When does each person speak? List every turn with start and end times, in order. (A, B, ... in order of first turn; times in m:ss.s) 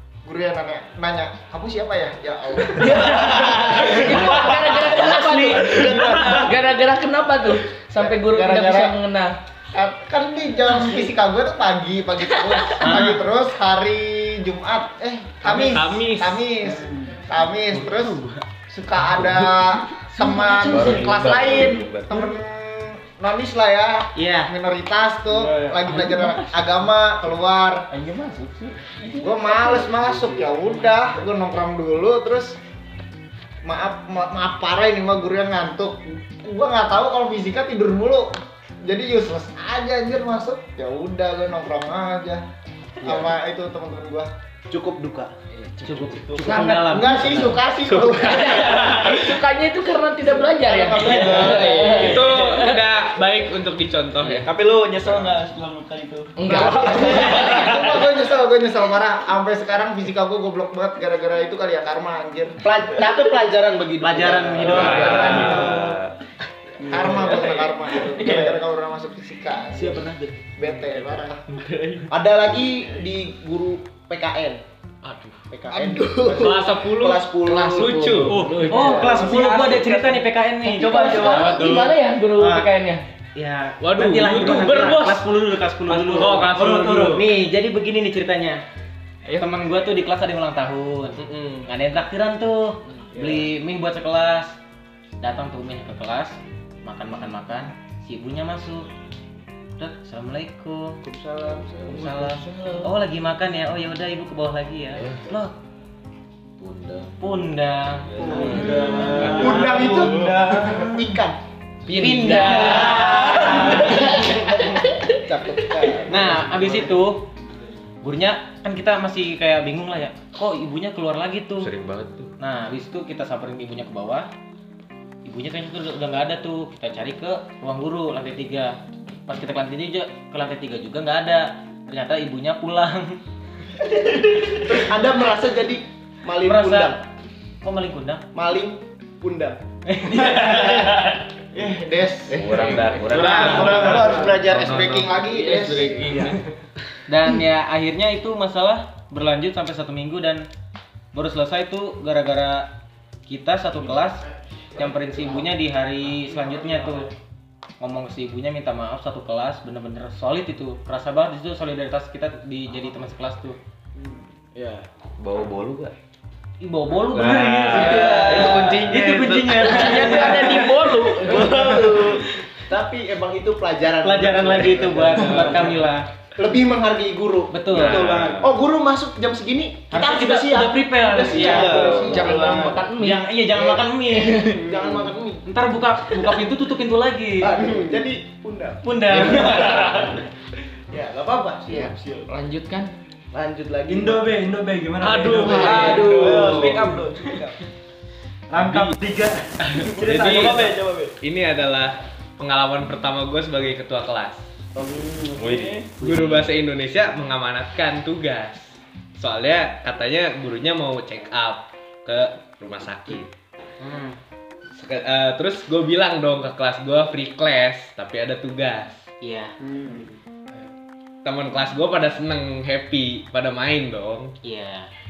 0:00.2-0:03.3 A
0:02.9-0:09.4 B
0:03.0-0:04.5 C
0:03.1-0:06.6 D
0:05.5-0:06.5 C
0:08.0-0:09.0 A
0:09.7-0:27.9 A
0:15.4-0:16.5 E
0:16.9-0:17.2 C
0:17.8-0:18.2 F
0:20.2-0:20.5 F
0:20.6-0:22.3 G
0:24.1-0:24.5 F
0:25.3-0:26.3 C
0:29.1-0:30.6 C
0:29.2-0:32.6 A
0:33.6-0:42.4 A
0:43.0-0:44.3 A
0:44.7-0:45.3 D
0:45.8-0:47.0 B
0:45.8-0:47.6 F
0:46.0-0:46.7 C
0:46.8-0:49.0 A
0:47.9-0:52.8 B
0:50.6-0:51.8 A
0:51.0-0:52.6 C
0:51.8-0:54.5 E
0:54.2-0:58.0 C
0:56.4-0:57.7 B
0:56.4-1:02.6 A
1:02.6-1:06.0 D
1:04.0-1:05.8 F
1:04.6-1:06.1 G
1:04.8-1:05.4 E
1:06.8-1:11.4 A
1:06.8-1:08.6 C
1:09.8-1:10.2 F
1:10.7-1:12.1 C
1:12.1-1:14.6 D
1:15.0-1:15.3 E
1:15.5-1:18.3 D
1:15.7-1:16.2 A
1:15.9-1:16.5 B
1:16.3-1:18.6 E
1:17.4-1:19.4 B
1:18.3-1:22.0 C
1:18.6-1:21.7 F
1:20.7-1:23.0 B
1:22.4-1:22.7 F
1:23.4-1:28.6 F
1:23.8-1:25.3 E
1:25.9-1:27.1 C
1:26.1-1:27.2 E
1:26.4-1:27.2 H
1:29.4-1:34.6 F
1:31.2-1:31.7 D
1:33.1-1:33.5 C
1:35.2-1:38.9 F
1:39.8-1:41.0 F
1:41.0-1:42.1 D
1:41.8-1:42.9 G
1:41.9-1:45.5 F
1:44.9-1:45.2 G
1:46.6-1:47.1 G
1:47.2-1:49.6 F
1:48.1-1:48.6 G
1:48.2-1:51.4 D
1:48.2-1:51.0 C
1:51.9-1:53.1 E
1:51.9-1:54.2 F
1:52.2-1:53.2 B
1:52.9-1:54.0 C
1:53.5-1:56.6 D
1:56.0-1:57.2 F
1:58.0-2:01.7 F
2:01.6-2:02.3 G
2:02.4-2:04.3 F
2:05.2-2:13.2 F
2:14.5-2:17.0 D
2:16.4-2:17.0 F
2:17.6-2:18.2 F
2:18.3-2:19.6 D
2:19.9-2:20.7 F
2:21.5-2:26.0 A
2:22.3-2:25.1 G
2:23.2-2:24.9 E
2:23.3-2:24.2 C
2:25.4-2:26.2 B
2:25.8-2:26.3 C
2:26.0-2:26.3 D
2:27.1-2:30.4 F
2:31.1-2:32.7 F
2:33.3-2:34.2 F
2:34.7-2:37.1 F
2:37.8-2:43.6 F
2:44.5-2:44.8 D
2:45.2-2:45.9 G
2:46.6-2:50.7 F
2:47.1-2:49.8 G
2:47.7-2:48.9 C
2:47.7-2:48.6 D
2:49.6-2:52.0 B
2:49.8-2:52.3 C
2:52.7-2:55.8 D
2:54.0-2:56.0 F
2:56.4-3:02.8 D
2:57.5-2:58.1 F
2:57.7-2:58.5 C
2:57.8-2:58.5 G
2:59.9-3:02.3 F
3:01.2-3:02.8 C
3:02.0-3:03.3 B
3:03.0-3:04.5 F
3:03.5-3:03.8 D
3:04.4-3:05.5 D
3:04.5-3:05.1 C
3:05.5-3:07.6 F
3:07.4-3:10.0 D
3:07.6-3:08.0 C
3:08.8-3:09.9 F
3:09.3-3:10.1 H
3:10.9-3:11.8 D
3:11.6-3:12.9 B
3:11.8-3:12.3 C
3:13.3-3:14.3 D
3:13.9-3:16.8 H
3:15.0-3:17.6 C
3:15.0-3:17.0 E
3:15.4-3:16.2 B
3:18.5-3:19.4 H
3:18.5-3:18.9 E
3:19.7-3:21.1 C
3:19.9-3:24.4 E
3:20.0-3:20.5 H
3:24.7-3:25.9 C
3:25.4-3:25.8 G
3:26.0-3:33.3 E
3:26.0-3:26.4 F
3:33.8-3:34.2 F
3:34.7-3:39.0 E
3:39.2-3:39.5 F
3:39.6-3:40.1 C
3:41.2-3:44.3 E
3:44.4-3:44.9 F